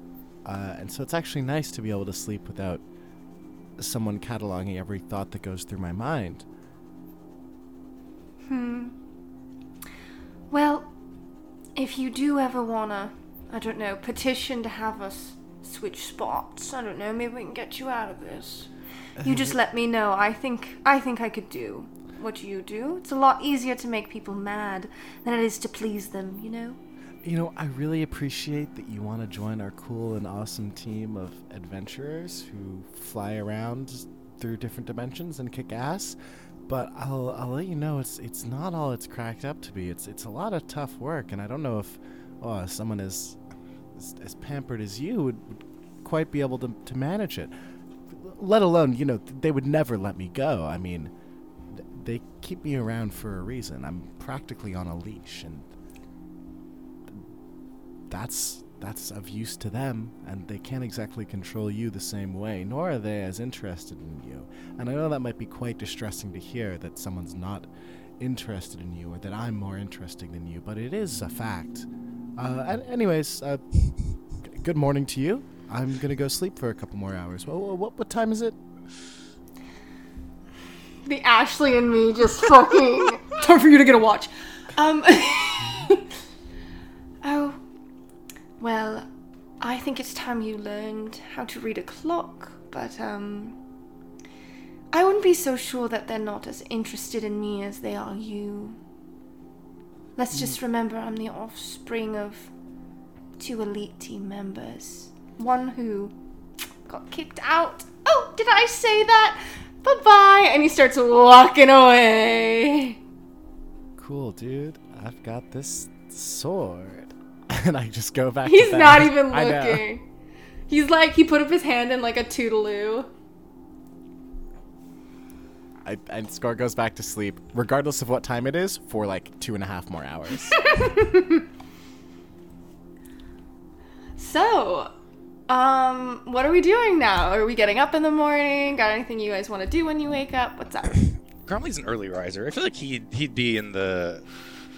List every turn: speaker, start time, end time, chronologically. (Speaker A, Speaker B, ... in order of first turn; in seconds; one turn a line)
Speaker A: 0.5-2.8
Speaker A: 3.8-6.5
Speaker B: 8.5-8.9
Speaker B: 10.5-10.9
Speaker B: 11.8-18.7
Speaker A: 19.2-19.6
Speaker B: 19.2-26.8
Speaker A: 27.2-36.2
Speaker A: 36.7-43.4
Speaker A: 44.0-47.5
Speaker A: 48.1-51.1
Speaker A: 51.7-55.7
Speaker A: 58.1-67.7
Speaker A: 68.2-71.9
Speaker A: 72.4-73.6
Speaker A: 74.5-78.6
Speaker B: 81.0-86.0
Speaker B: 87.2-87.6
Speaker B: 88.6-89.1
Speaker B: 89.6-93.6
Speaker B: 94.9-98.8
Speaker B: 100.2-102.5
Speaker B: 103.4-106.1
Speaker B: 106.9-113.0
Speaker A: 114.0-119.9
Speaker B: 118.5-120.0
Speaker B: 120.7-123.1
Speaker A: 125.8-130.6
Speaker B: 130.7-131.3
Speaker B: 134.2-134.9
Speaker B: 135.5-141.1
Speaker C: 141.4-144.2